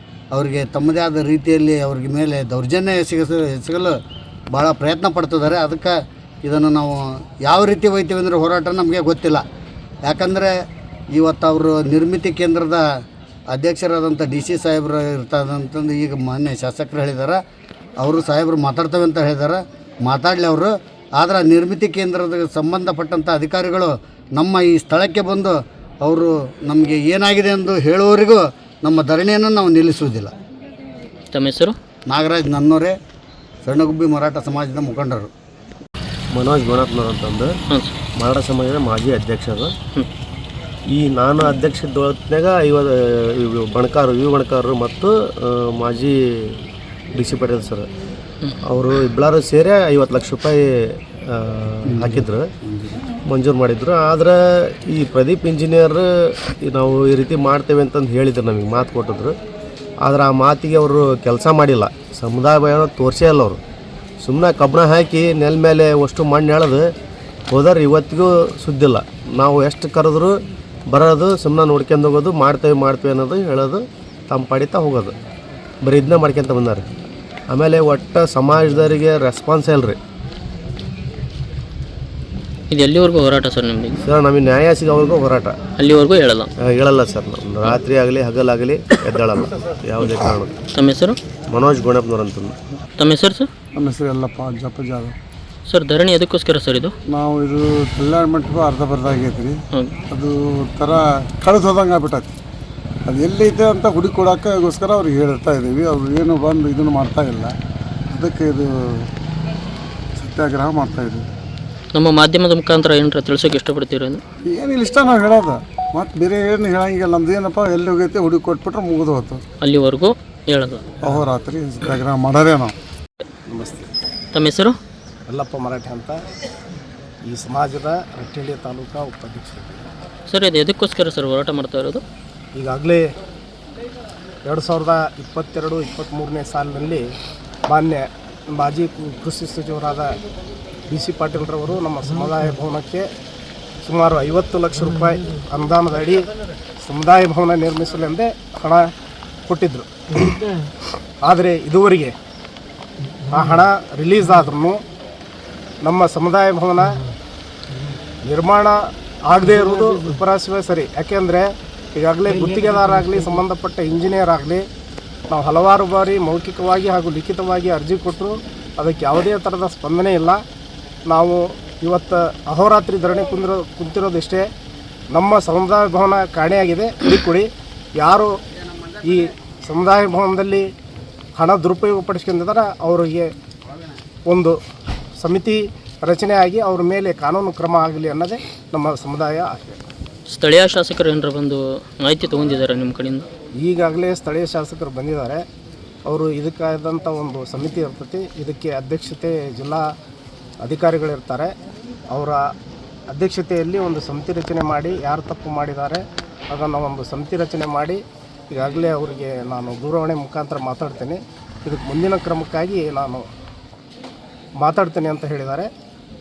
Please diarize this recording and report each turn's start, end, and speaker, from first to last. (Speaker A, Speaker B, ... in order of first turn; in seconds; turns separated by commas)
Speaker A: 0.3-4.0, Speaker A: 4.5-9.4, Speaker A: 10.0-10.5, Speaker A: 11.1-12.8, Speaker A: 13.5-17.4, Speaker A: 18.0-30.3, Speaker B: 31.3-31.8, Speaker A: 32.1-32.9, Speaker A: 33.6-35.3, Speaker C: 36.3-37.5, Speaker B: 37.7-38.0, Speaker C: 38.2-39.7, Speaker C: 40.9-46.6, Speaker C: 47.1-47.9, Speaker C: 48.6-52.5, Speaker A: 51.9-53.0, Speaker C: 53.2-59.4, Speaker C: 60.0-63.6, Speaker C: 64.2-66.9, Speaker C: 67.5-75.1, Speaker C: 75.8-76.8, Speaker C: 77.5-80.0, Speaker B: 82.7-84.0, Speaker C: 84.0-85.6, Speaker B: 85.8-86.5, Speaker C: 86.6-90.5, Speaker B: 90.7-91.2, Speaker C: 91.5-92.5, Speaker B: 93.0-93.5, Speaker D: 93.7-95.1, Speaker B: 95.7-96.9, Speaker D: 97.1-99.6, Speaker D: 100.1-102.3, Speaker D: 103.0-107.5, Speaker D: 108.1-109.1, Speaker D: 110.2-111.2, Speaker B: 111.9-114.2, Speaker D: 114.5-119.4, Speaker B: 119.6-120.8, Speaker D: 121.0-122.7, Speaker E: 123.5-123.9, Speaker B: 124.3-124.8, Speaker E: 125.3-126.2, Speaker E: 127.2-129.8, Speaker B: 130.3-132.0, Speaker E: 132.5-133.1, Speaker E: 134.4-137.1, Speaker E: 137.7-140.2, Speaker E: 140.9-143.1, Speaker E: 143.8-148.9, Speaker E: 149.5-150.4, Speaker E: 151.2-152.1, Speaker E: 153.3-154.8, Speaker E: 155.8-157.0, Speaker E: 158.2-164.7, Speaker E: 165.3-170.4, Speaker E: 171.1-174.5, Speaker E: 175.1-178.4, Speaker E: 179.0-180.7, Speaker E: 181.3-183.3, Speaker E: 184.2-184.6, Speaker E: 185.2-189.8, Speaker B: 190.3-193.3, Speaker E: 193.6-195.4, Speaker E: 196.1-199.9, Speaker E: 200.6-201.5, Speaker E: 202.1-202.4, Speaker E: 203.1-213.3, Speaker E: 214.6-215.7